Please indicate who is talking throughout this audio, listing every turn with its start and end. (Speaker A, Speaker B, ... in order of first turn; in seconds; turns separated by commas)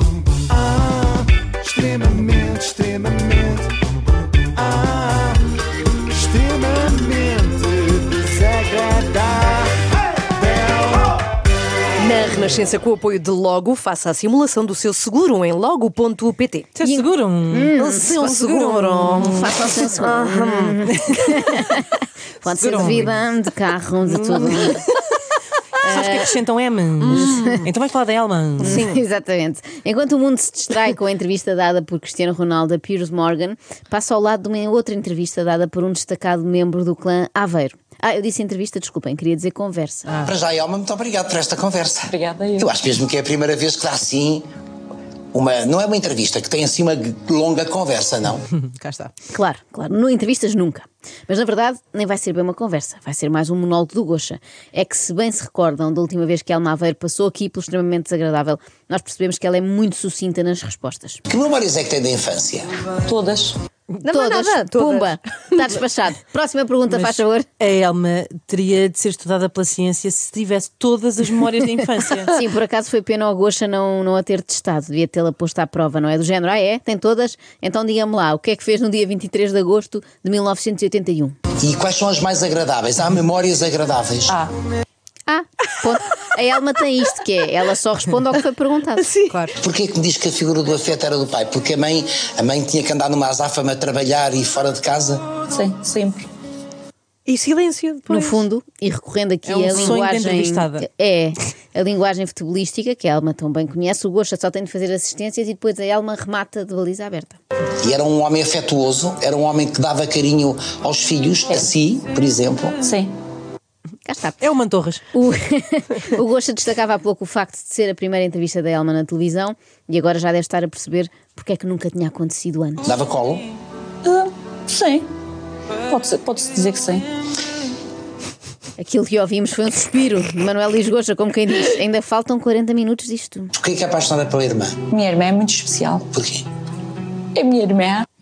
Speaker A: 0.5-3.7, Speaker A: 4.5-5.4, Speaker A: 6.1-9.7, Speaker A: 10.4-10.9, Speaker B: 12.0-16.8, Speaker C: 16.8-19.5, Speaker D: 16.8-18.1, Speaker B: 17.7-21.1, Speaker D: 19.2-24.8, Speaker C: 20.9-21.6, Speaker C: 22.5-23.1, Speaker C: 24.1-24.7, Speaker D: 25.8-26.3, Speaker C: 25.8-28.8, Speaker B: 27.0-27.6, Speaker D: 27.1-27.6, Speaker D: 28.6-40.1, Speaker B: 28.7-29.0, Speaker E: 40.2-44.5, Speaker F: 42.1-42.7, Speaker E: 45.3-48.5, Speaker C: 48.6-49.1, Speaker D: 49.3-61.2, Speaker E: 61.3-62.7, Speaker F: 63.0-63.5, Speaker B: 64.0-65.7, Speaker D: 64.1-67.5, Speaker C: 66.9-72.3, Speaker D: 72.3-81.4, Speaker E: 81.6-84.4, Speaker D: 85.3-89.1, Speaker B: 89.0-89.5, Speaker E: 89.6-95.3, Speaker F: 95.5-96.3, Speaker B: 97.3-98.5, Speaker D: 98.1-107.4, Speaker C: 99.4-100.8, Speaker B: 99.7-100.0, Speaker E: 107.8-112.8, Speaker F: 112.8-113.1, Speaker D: 114.1-114.4, Speaker C: 114.4-115.0, Speaker D: 115.1-122.9, Speaker E: 122.8-123.5, Speaker F: 124.0-125.1, Speaker F: 125.9-127.0, Speaker D: 128.8-133.5, Speaker E: 133.5-134.8, Speaker F: 134.9-136.1, Speaker E: 136.1-136.5, Speaker F: 137.3-138.1